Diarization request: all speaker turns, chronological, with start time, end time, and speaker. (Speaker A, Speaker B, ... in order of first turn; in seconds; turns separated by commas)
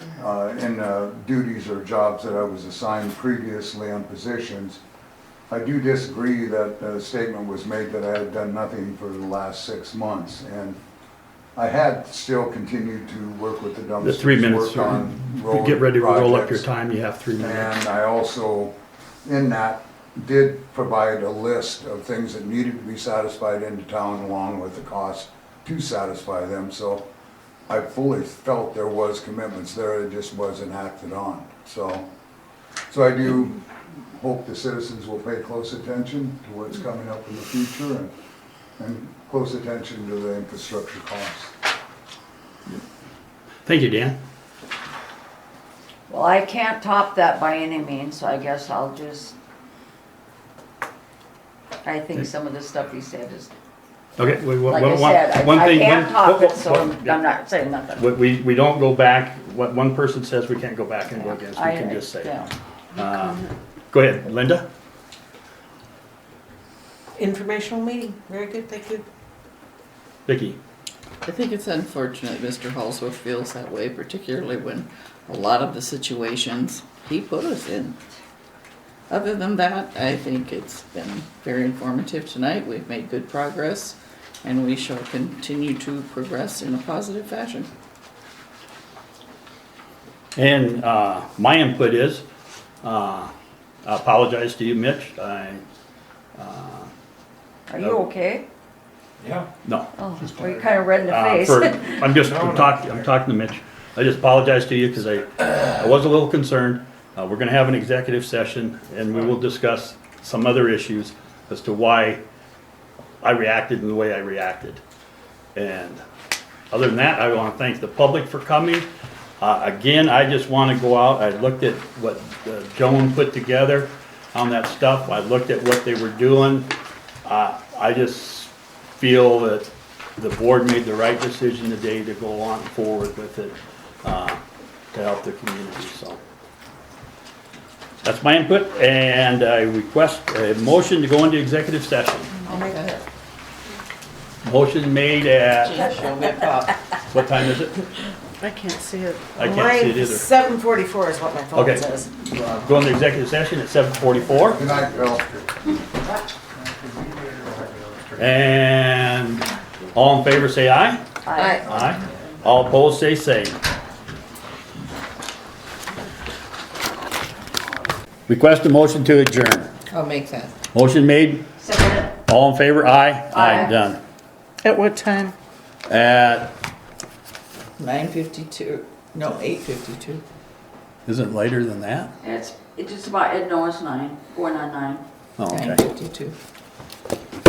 Speaker A: 0.1-4.8, Speaker A: 5.5-10.8, Speaker A: 11.6-16.7, Speaker B: 14.0-17.7, Speaker A: 17.4-27.1, Speaker A: 27.7-32.1, Speaker A: 32.9-33.6, Speaker A: 34.1-38.1, Speaker A: 38.8-41.5, Speaker B: 43.6-44.2, Speaker C: 46.1-49.4, Speaker C: 51.8-53.5, Speaker B: 54.2-57.2, Speaker C: 54.7-58.0, Speaker B: 58.0-64.7, Speaker C: 61.1-62.5, Speaker D: 67.2-69.0, Speaker B: 70.3-70.6, Speaker E: 71.2-78.0, Speaker E: 79.1-87.7, Speaker B: 90.4-92.2, Speaker B: 92.8-93.3, Speaker B: 93.8-95.6, Speaker B: 96.4-96.9, Speaker C: 97.7-98.5, Speaker F: 99.2-99.5, Speaker B: 99.7-99.9, Speaker C: 100.0-102.1, Speaker F: 100.3-100.7, Speaker B: 101.0-112.2, Speaker F: 102.2-103.1, Speaker B: 113.2-114.8, Speaker B: 115.5-116.0, Speaker B: 116.7-118.9, Speaker B: 119.4-126.7, Speaker B: 127.2-134.4, Speaker B: 134.9-136.2, Speaker B: 138.0-142.3, Speaker E: 142.4-143.0, Speaker C: 142.5-142.8, Speaker B: 144.4-145.9, Speaker E: 145.6-146.8, Speaker B: 147.1-147.8, Speaker D: 148.4-152.1, Speaker B: 149.3-150.3, Speaker B: 151.5-154.6, Speaker F: 154.2-155.4, Speaker A: 154.5-155.3, Speaker F: 156.5-158.5, Speaker B: 158.2-161.0, Speaker C: 161.3-161.7, Speaker E: 161.4-161.6, Speaker B: 161.6-163.6, Speaker B: 168.3-169.7, Speaker E: 169.9-170.6, Speaker B: 170.7-171.5, Speaker C: 171.6-172.1, Speaker B: 172.2-174.0, Speaker C: 173.3-173.8, Speaker D: 174.6-175.3, Speaker B: 175.9-176.5, Speaker E: 177.8-180.2, Speaker B: 181.1-182.1, Speaker C: 182.2-185.0, Speaker B: 185.4-185.8, Speaker E: 185.5-186.3